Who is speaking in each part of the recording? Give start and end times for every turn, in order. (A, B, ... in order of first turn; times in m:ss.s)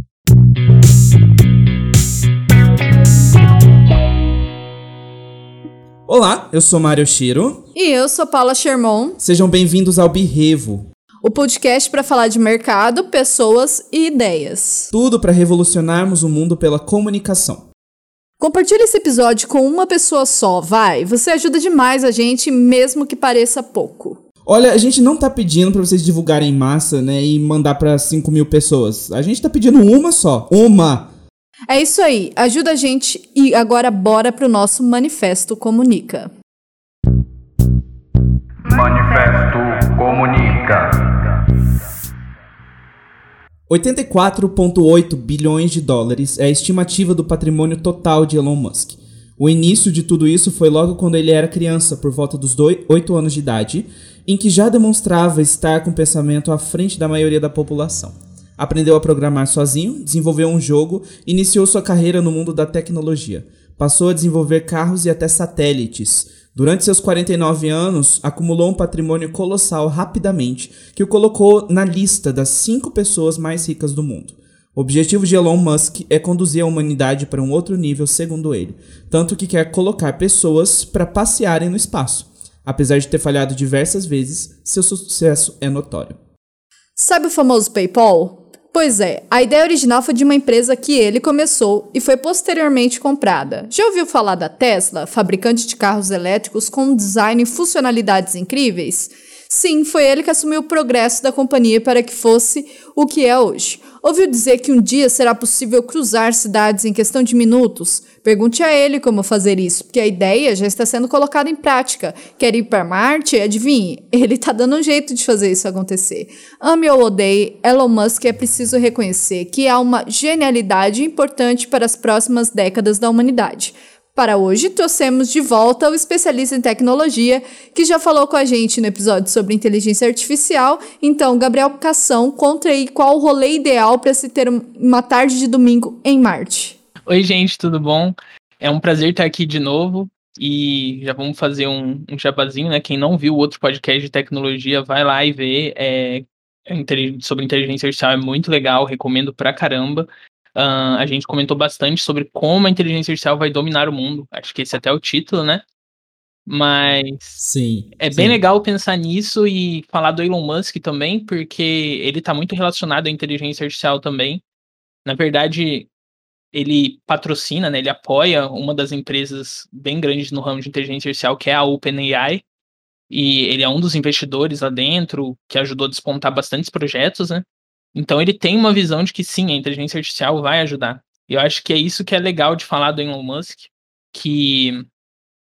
0:06.1-0:07.6 A
0:07.7-0:09.2 B
0:09.2-0:10.8 A
0:11.2-0:14.9 B
0:14.9-0:17.6 A
0:18.4-0:24.2 B
0:24.4-0:31.1 A
0:31.7-0:36.3 B
0:38.6-0:41.1 A
0:43.7-1:26.2 A
1:27.0-2:16.8 B
2:17.1-2:35.6 C
2:36.5-2:37.4 C
2:37.4-2:38.4 A
2:38.0-2:44.4 C
2:45.0-2:45.9 C
2:46.5-2:52.4 C
2:53.1-3:04.9 C